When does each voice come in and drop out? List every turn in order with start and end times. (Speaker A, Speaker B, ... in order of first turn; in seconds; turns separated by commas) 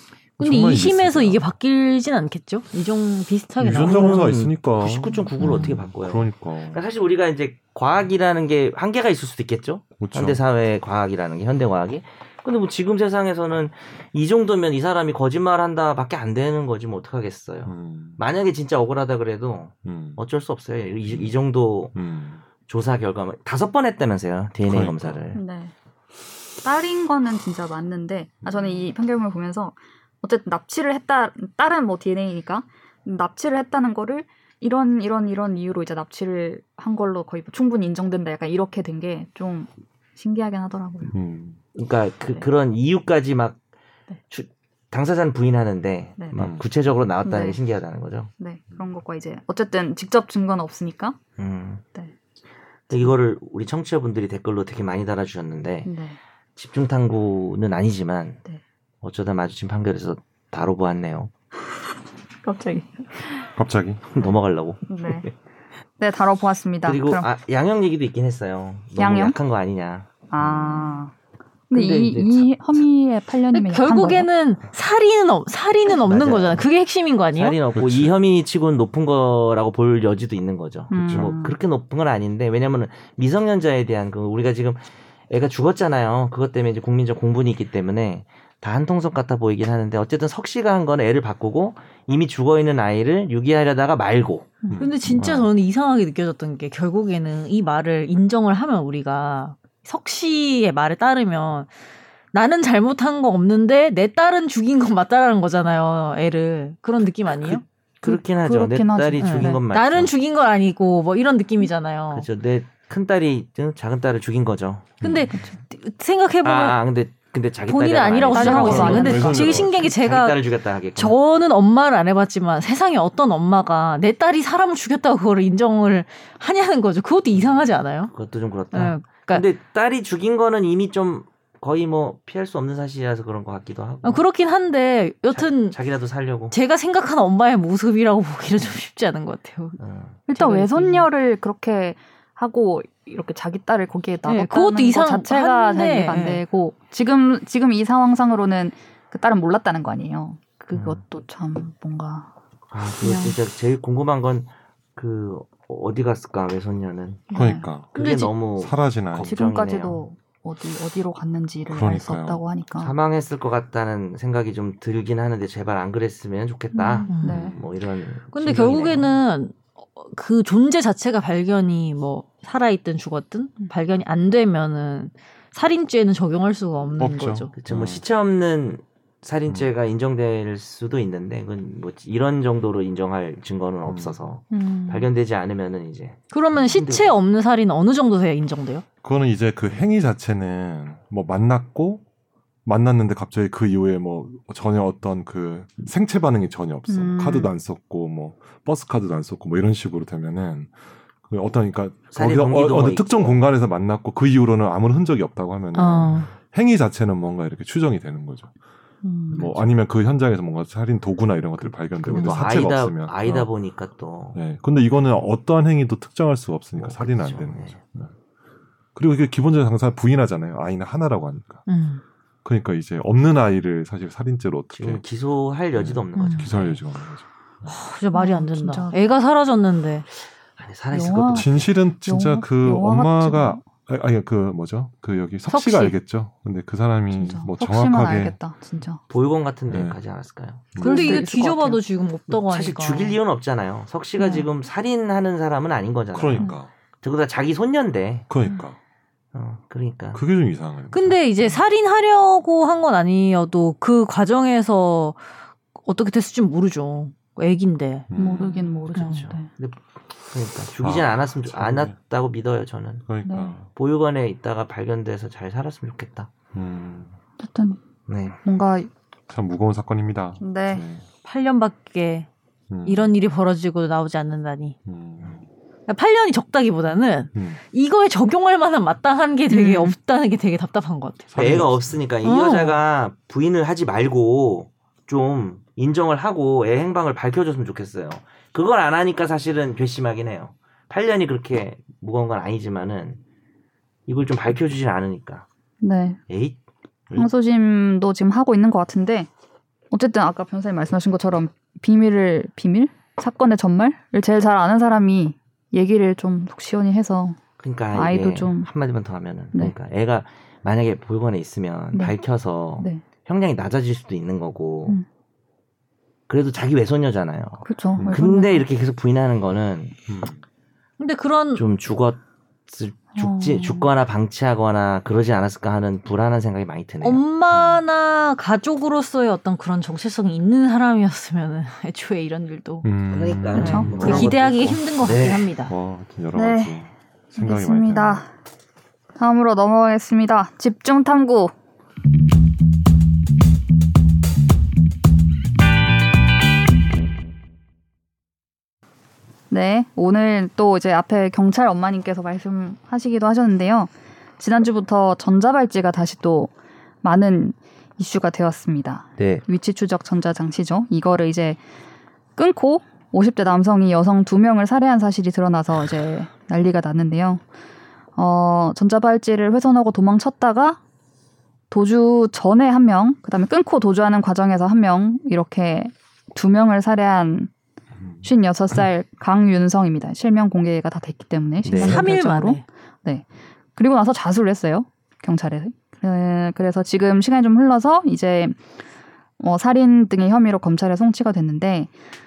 Speaker A: 0.4-1.4, Speaker B: 0.4-4.3, Speaker A: 3.6-6.8, Speaker C: 3.7-22.0, Speaker B: 5.4-5.8, Speaker A: 10.0-10.4, Speaker A: 17.7-18.2, Speaker A: 19.9-20.2, Speaker A: 21.1-21.3, Speaker A: 21.9-22.4, Speaker C: 22.7-25.4, Speaker A: 24.7-25.2, Speaker D: 25.3-25.7, Speaker D: 26.6-41.1, Speaker A: 28.5-28.7, Speaker A: 41.1-41.6, Speaker C: 41.8-43.6, Speaker C: 44.3-48.3, Speaker D: 46.2-46.4, Speaker A: 46.4-46.6, Speaker D: 47.2-47.6, Speaker D: 48.4-51.2, Speaker C: 51.4-51.8, Speaker C: 52.9-55.9, Speaker D: 55.9-56.2, Speaker C: 56.6-58.4, Speaker C: 59.0-61.3, Speaker D: 62.4-63.5, Speaker A: 63.6-64.0, Speaker C: 64.1-65.3, Speaker D: 64.9-65.3, Speaker D: 66.0-67.3, Speaker C: 66.8-71.0, Speaker D: 69.0-69.4, Speaker D: 70.3-71.1, Speaker D: 71.7-74.3, Speaker C: 71.7-72.5, Speaker B: 73.5-77.6, Speaker C: 75.9-76.7, Speaker C: 77.3-94.5, Speaker A: 77.8-78.1, Speaker D: 80.9-81.6, Speaker A: 81.0-81.3, Speaker A: 94.7-95.5, Speaker B: 94.8-101.7, Speaker B: 102.3-107.6, Speaker C: 107.4-110.1, Speaker D: 108.0-109.6, Speaker B: 109.2-112.3, Speaker C: 112.1-115.0, Speaker A: 115.0-115.3, Speaker B: 115.0-116.8, Speaker C: 116.4-121.2, Speaker B: 117.7-120.4, Speaker D: 118.3-119.3, Speaker A: 118.6-119.9, Speaker B: 121.0-128.1, Speaker C: 128.1-134.2, Speaker B: 128.7-129.4, Speaker B: 134.0-135.8, Speaker C: 135.3-136.5, Speaker B: 136.5-139.8, Speaker C: 139.8-140.2, Speaker D: 140.3-152.3, Speaker B: 140.3-141.1, Speaker B: 144.3-146.4, Speaker C: 150.7-151.0, Speaker C: 152.7-157.3, Speaker D: 153.1-153.3, Speaker D: 157.3-157.7, Speaker A: 157.3-158.0, Speaker C: 157.9-160.0, Speaker B: 157.9-158.3, Speaker A: 158.6-159.4, Speaker D: 159.2-162.9, Speaker A: 161.7-162.4, Speaker C: 162.8-169.1, Speaker D: 166.7-167.6, Speaker B: 167.1-167.4, Speaker A: 167.2-167.6, Speaker B: 168.3-177.5, Speaker A: 177.0-178.0, Speaker C: 177.6-187.1, Speaker A: 183.9-184.2, Speaker D: 184.5-185.1, Speaker B: 186.3-188.8, Speaker A: 189.0-192.0, Speaker A: 192.7-200.7, Speaker D: 196.9-197.5, Speaker A: 201.3-208.5, Speaker C: 202.1-203.4, Speaker B: 205.8-206.3, Speaker D: 209.0-209.6, Speaker A: 209.3-213.2, Speaker C: 212.1-214.4, Speaker B: 212.1-212.4, Speaker A: 214.3-218.1, Speaker C: 216.8-217.8, Speaker A: 218.9-221.6, Speaker B: 221.7-222.0, Speaker A: 222.4-225.0, Speaker C: 224.7-226.8, Speaker A: 225.7-227.7, Speaker B: 226.2-226.5, Speaker B: 227.7-230.1, Speaker D: 228.1-229.0, Speaker C: 230.6-231.7, Speaker D: 230.9-231.5, Speaker A: 231.3-238.4, Speaker D: 232.1-233.6, Speaker B: 235.5-236.0, Speaker D: 237.1-239.0, Speaker C: 239.1-240.8, Speaker A: 239.7-240.0, Speaker A: 240.7-241.2, Speaker D: 240.8-241.8, Speaker B: 240.8-243.2, Speaker C: 242.3-248.3, Speaker D: 244.2-244.5, Speaker A: 246.1-246.7, Speaker A: 248.3-248.8, Speaker C: 249.3-250.2, Speaker A: 250.1-251.6, Speaker B: 250.9-255.2, Speaker B: 255.8-258.1, Speaker A: 258.1-258.8, Speaker D: 258.2-259.5, Speaker C: 258.4-263.1, Speaker B: 258.9-259.2, Speaker A: 260.8-262.0, Speaker A: 263.1-263.7, Speaker D: 263.2-263.6, Speaker C: 263.7-266.3, Speaker A: 266.5-267.1, Speaker D: 267.4-267.8, Speaker C: 268.1-268.4, Speaker D: 268.4-268.9, Speaker A: 269.3-271.0, Speaker D: 270.4-270.8, Speaker B: 271.2-272.3, Speaker A: 272.7-273.1, Speaker B: 272.9-274.8, Speaker A: 274.9-275.4, Speaker B: 275.9-281.6, Speaker D: 279.5-279.9, Speaker A: 281.3-281.9, Speaker C: 281.4-293.2, Speaker B: 282.2-282.8, Speaker C: 294.1-295.5, Speaker D: 295.8-296.2, Speaker C: 296.3-296.6, Speaker D: 297.1-299.3, Speaker D: 299.9-307.4, Speaker C: 307.6-315.0, Speaker D: 307.9-308.7, Speaker D: 311.9-312.2, Speaker C: 316.3-320.0, Speaker D: 317.6-318.7, Speaker A: 318.0-318.2, Speaker A: 320.1-320.4, Speaker B: 321.0-321.6, Speaker C: 321.6-327.2, Speaker D: 323.1-323.9, Speaker B: 327.0-332.9, Speaker A: 327.5-327.8, Speaker A: 332.8-334.3, Speaker C: 333.1-335.4, Speaker B: 333.5-335.7, Speaker D: 333.6-334.3, Speaker A: 335.0-338.2, Speaker D: 336.4-336.8, Speaker D: 337.4-338.3, Speaker D: 339.2-341.5, Speaker D: 349.5-361.6, Speaker C: 359.2-359.4, Speaker D: 362.4-367.4, Speaker D: 368.2-370.8, Speaker D: 371.7-377.5, Speaker D: 378.2-383.2, Speaker C: 381.6-382.1, Speaker B: 381.7-382.6, Speaker D: 383.8-388.6, Speaker D: 389.4-391.9